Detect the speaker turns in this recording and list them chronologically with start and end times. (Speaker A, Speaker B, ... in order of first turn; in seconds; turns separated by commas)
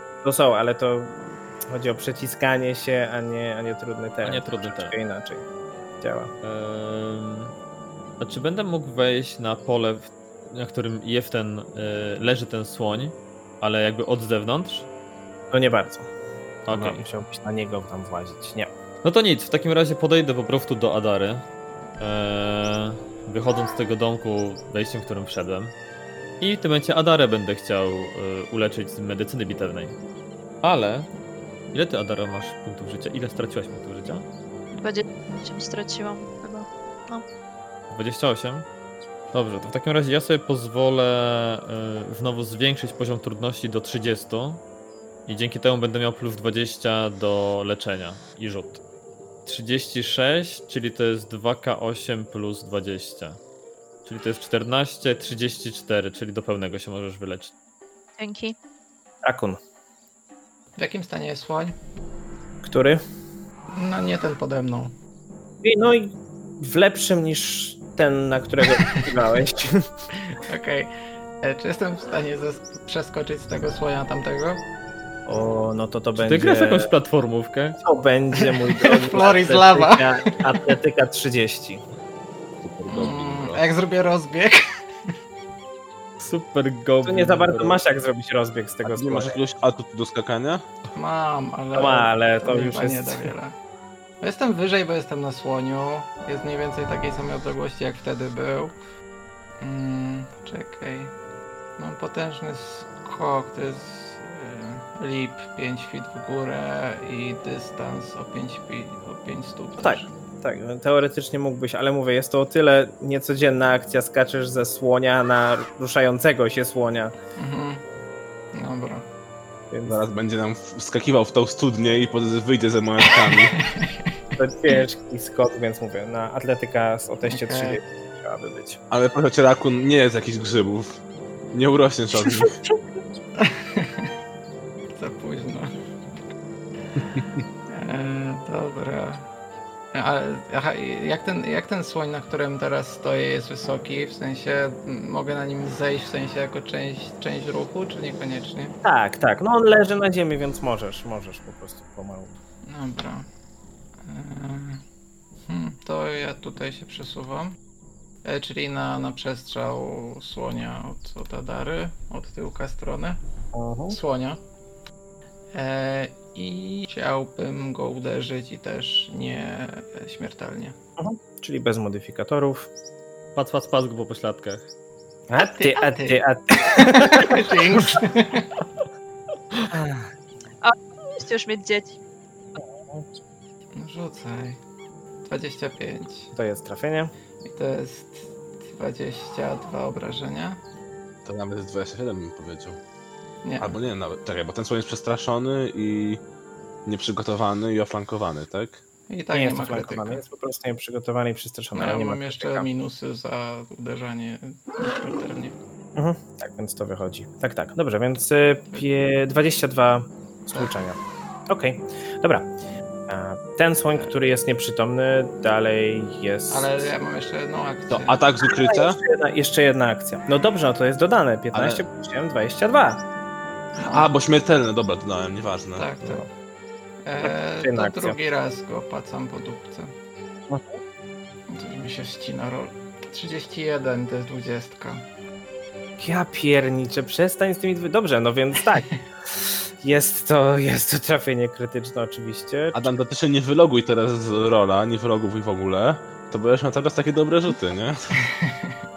Speaker A: 0.2-5.5, Speaker B: 4.2-5.0, Speaker A: 6.0-6.3, Speaker B: 6.4-7.5, Speaker B: 8.2-14.9, Speaker A: 15.5-16.1, Speaker B: 16.7-17.0, Speaker A: 16.7-18.7, Speaker B: 19.0-21.4, Speaker B: 22.0-25.7, Speaker B: 26.4-30.0, Speaker B: 30.6-31.1, Speaker B: 31.7-34.3, Speaker C: 34.7-37.2, Speaker B: 37.9-38.7, Speaker B: 39.3-44.6, Speaker B: 45.3-48.8, Speaker B: 49.5-53.4, Speaker B: 54.0-57.5, Speaker C: 58.2-58.6, Speaker A: 59.2-59.6, Speaker D: 60.8-61.8, Speaker A: 62.6-63.0, Speaker D: 63.7-64.9, Speaker A: 65.6-69.9, Speaker D: 70.3-74.6, Speaker A: 75.3-76.9, Speaker B: 76.2-77.8, Speaker A: 77.8-81.8, Speaker D: 78.4-80.6, Speaker E: 82.6-83.6, Speaker D: 82.9-84.7, Speaker B: 86.2-87.8, Speaker A: 87.0-89.4, Speaker E: 88.8-90.7, Speaker D: 91.0-93.5, Speaker A: 91.7-93.3, Speaker D: 94.2-98.8, Speaker D: 99.6-101.2, Speaker D: 101.8-110.1, Speaker A: 109.8-117.1, Speaker D: 117.4-117.8, Speaker D: 118.5-119.1, Speaker A: 119.7-120.0, Speaker E: 119.9-123.6, Speaker D: 123.2-124.2, Speaker A: 124.4-128.8, Speaker D: 127.3-127.8, Speaker E: 128.9-131.0, Speaker E: 131.5-132.6, Speaker D: 133.4-134.1, Speaker D: 134.9-135.7, Speaker D: 137.7-139.3, Speaker D: 139.9-148.8, Speaker A: 148.8-152.3, Speaker D: 152.7-153.3, Speaker D: 154.0-154.8, Speaker D: 155.5-157.6, Speaker D: 158.2-163.2, Speaker A: 163.5-164.0, Speaker D: 163.9-164.4, Speaker D: 165.5-170.8, Speaker A: 171.0-172.7, Speaker B: 173.3-174.7, Speaker A: 175.3-177.5, Speaker D: 175.3-178.6, Speaker A: 179.7-180.1, Speaker C: 180.6-182.0, Speaker A: 182.6-183.1, Speaker D: 183.8-184.6, Speaker D: 185.2-186.3, Speaker A: 186.3-187.1, Speaker D: 187.4-190.6, Speaker E: 191.2-192.8, Speaker D: 193.4-193.8, Speaker E: 193.6-196.2, Speaker E: 196.9-198.8, Speaker D: 199.1-200.2, Speaker A: 199.3-202.7, Speaker D: 201.8-205.6, Speaker A: 206.0-212.5, Speaker A: 213.1-216.9, Speaker D: 216.5-218.2, Speaker E: 217.9-219.0, Speaker A: 218.4-223.0, Speaker E: 221.5-221.8, Speaker D: 223.8-224.1, Speaker E: 223.8-225.9, Speaker D: 225.8-226.2, Speaker D: 227.0-229.9, Speaker A: 227.2-228.2, Speaker A: 230.5-230.8, Speaker D: 231.5-235.0, Speaker A: 236.0-242.9, Speaker E: 242.7-248.3, Speaker D: 248.2-248.7